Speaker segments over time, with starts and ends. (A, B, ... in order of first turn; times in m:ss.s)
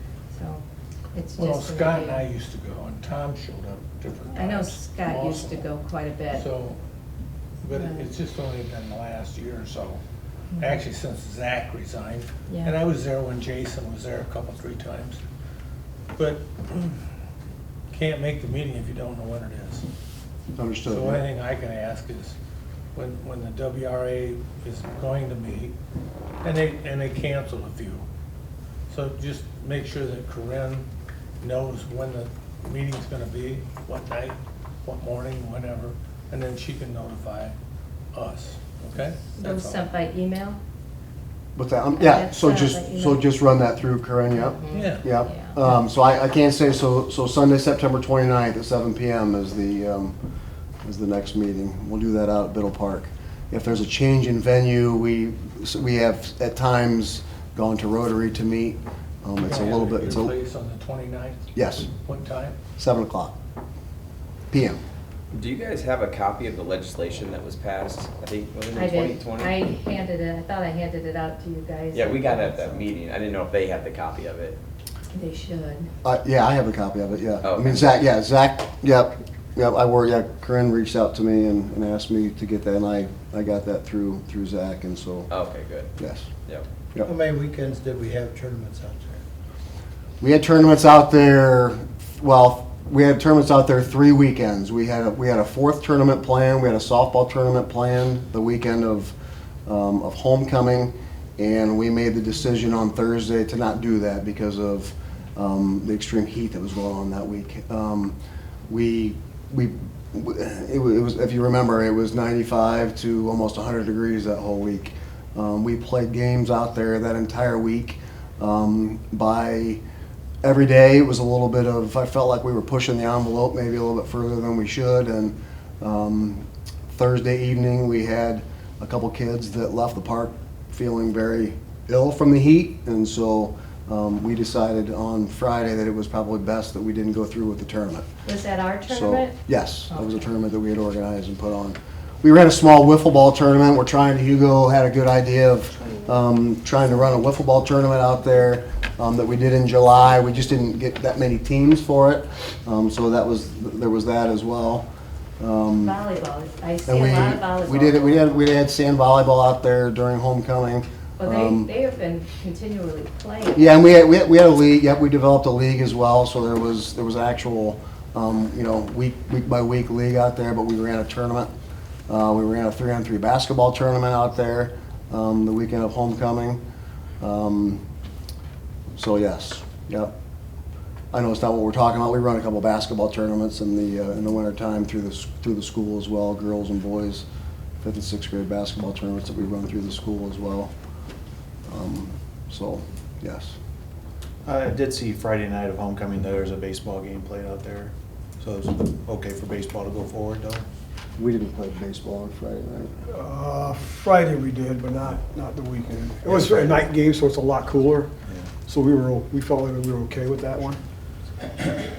0:00.3-0:02.3 A
0:01.4-0:05.7 B
0:04.3-0:06.5 A
0:06.3-0:06.8 B
0:07.6-0:10.0 B
0:07.7-0:08.1 A
0:10.5-0:10.8 A
0:10.6-0:15.2 B
0:12.5-0:12.8 A
0:16.2-0:17.0 B
0:17.9-0:19.9 B
0:20.6-0:21.2 C
0:20.9-0:22.4 B
0:23.0-0:25.7 B
0:26.4-0:28.0 B
0:28.9-0:30.9 B
0:31.4-0:37.6 B
0:38.1-0:39.8 B
0:39.4-0:40.6 A
0:41.6-0:50.2 C
0:42.0-0:43.3 A
0:44.3-0:45.6 A
0:44.7-0:45.0 B
0:50.8-1:00.4 C
0:59.4-1:01.5 B
1:01.6-1:01.9 C
1:02.0-1:02.6 B
1:02.8-1:03.4 C
1:04.5-1:04.8 C
1:05.3-1:09.5 D
1:08.7-1:12.8 A
1:11.9-1:14.6 D
1:15.1-1:15.9 A
1:16.0-1:25.3 C
1:17.4-1:18.0 D
1:25.3-1:25.9 D
1:26.0-1:26.3 C
1:27.0-1:29.2 E
1:30.2-1:39.1 C
1:39.7-1:48.2 C
1:48.7-1:59.8 C
2:00.4-2:18.1 C
2:18.2-2:19.4 A
2:18.9-2:34.9 C
2:35.4-2:36.0 C
2:35.8-2:38.3 A
2:36.9-2:41.7 C
2:41.2-2:43.8 A
2:43.6-2:51.5 C
2:52.1-2:56.6 C
2:57.2-2:57.8 C
2:59.0-3:00.1 C
3:01.1-3:07.2 C
3:07.8-3:10.7 C
3:11.7-3:13.6 C
3:14.4-3:20.7 F
3:21.2-3:22.9 C
3:23.1-3:28.1 G
3:26.2-3:26.8 F
3:28.2-3:28.6 F
3:28.6-3:30.8 G